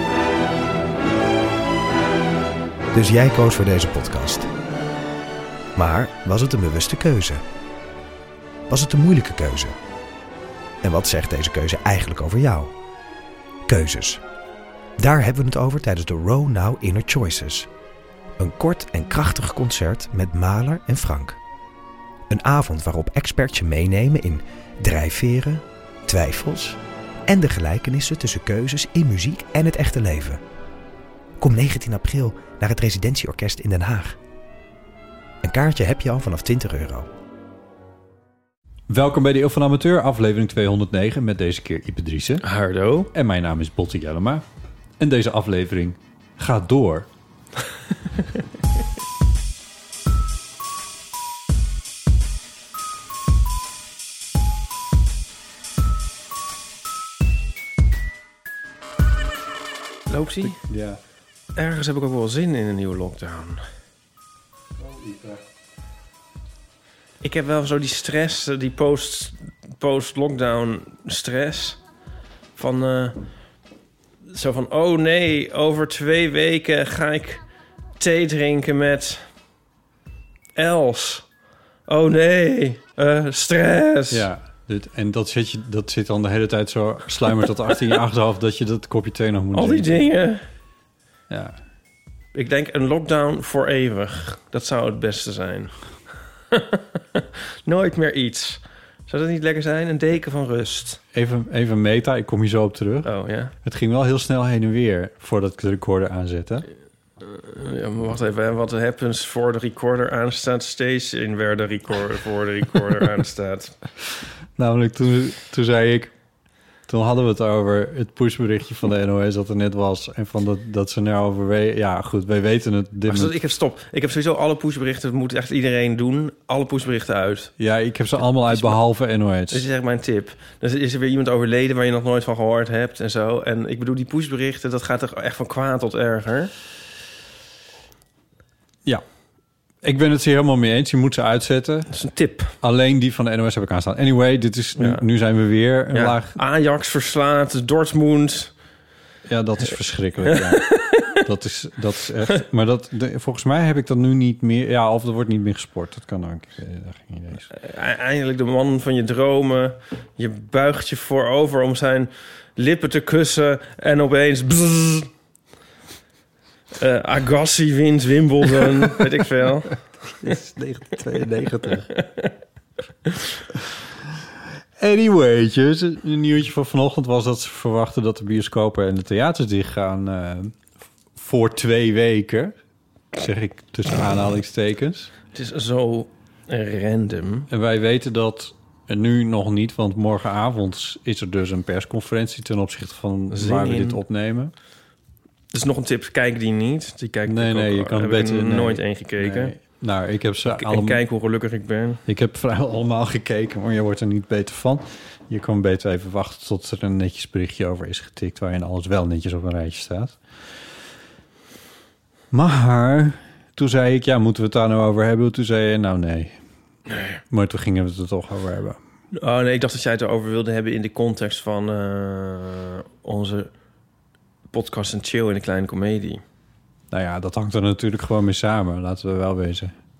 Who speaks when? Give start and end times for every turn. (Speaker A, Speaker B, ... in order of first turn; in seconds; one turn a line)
Speaker A: 2.9-4.5
Speaker A: 5.8-7.4
Speaker A: 8.7-9.8
Speaker A: 10.8-12.7
Speaker A: 13.7-14.2
Speaker A: 15.0-17.7
Speaker A: 18.4-21.4
Speaker A: 22.3-30.4
Speaker A: 31.4-34.2
Speaker A: 35.4-37.1
Speaker B: 38.9-42.5
Speaker C: 42.4-43.1
Speaker B: 43.1-44.5
Speaker B: 45.0-47.1
Speaker C: 60.1-60.6
Speaker B: 60.4-61.0
Speaker C: 61.6-63.6
Speaker B: 64.8-65.4
Speaker C: 67.2-71.8
Speaker C: 72.5-73.2
Speaker C: 74.3-77.4
Speaker C: 78.0-79.3
Speaker C: 80.5-81.3
Speaker C: 81.9-84.3
Speaker B: 84.1-90.1
Speaker C: 89.5-90.4
Speaker B: 91.3-91.6
Speaker C: 92.3-95.8
Speaker C: 96.5-101.0
Speaker B: 101.1-106.7
Speaker C: 103.0-103.5
Speaker C: 107.2-113.8
Speaker B: 114.6-116.1
Speaker B: 116.9-123.3
Speaker C: 123.1-127.5
Speaker B: 127.6-129.7
Speaker C: 128.2-128.8
Speaker C: 129.5-136.5
Speaker B: 139.8-141.9
Speaker C: 141.9-142.5
Speaker B: 142.6-146.4
Speaker C: 144.8-145.0
Speaker C: 145.9-148.5
Speaker B: 149.3-157.5
Speaker C: 150.3-151.2
Speaker C: 157.5-165.1
Speaker C: 166.8-169.8
Speaker B: 170.2-171.9
Speaker C: 171.9-172.3
Speaker B: 174.8-180.6
Speaker B: 181.2-182.6
Speaker B: 183.1-185.1
Speaker C: 185.3-187.5
Speaker B: 187.5-194.5
Speaker C: 193.3-194.0
Speaker C: 195.5-199.6
Speaker B: 197.2-201.0
Speaker C: 200.5-202.0
Speaker B: 202.1-210.2
Speaker B: 212.3-216.4
Speaker B: 217.3-218.8
Speaker C: 219.1-223.5
Speaker C: 224.5-226.2
Speaker B: 226.9-229.7